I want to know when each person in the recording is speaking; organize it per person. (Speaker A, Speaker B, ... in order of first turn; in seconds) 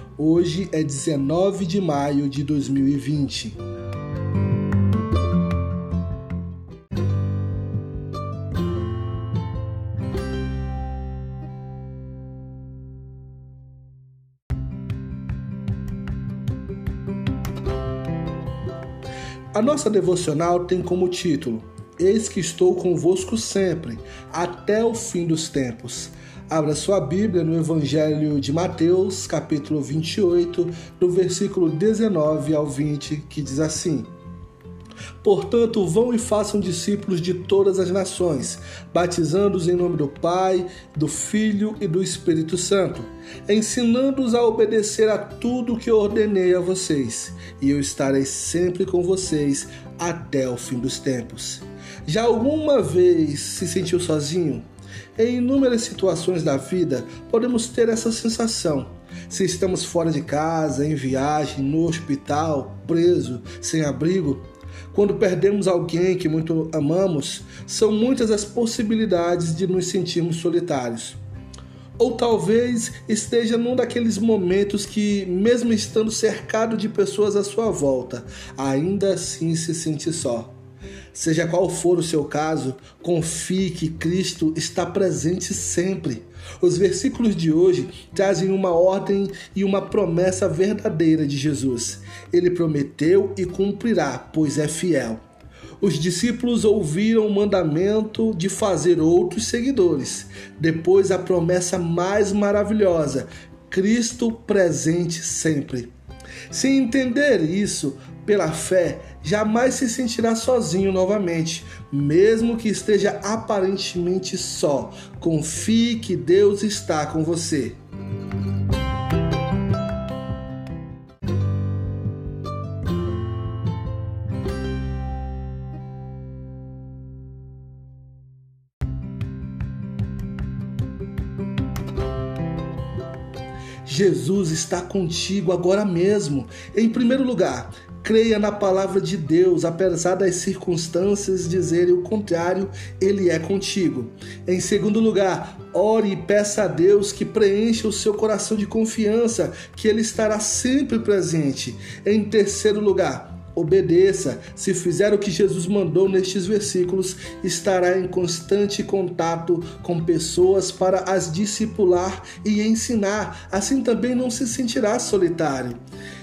Speaker A: 0.2-3.6, 19.5-34.1, 35.2-54.6, 55.2-71.2, 72.0-80.5, 81.1-95.2, 95.8-105.9, 106.5-117.8, 133.8-165.8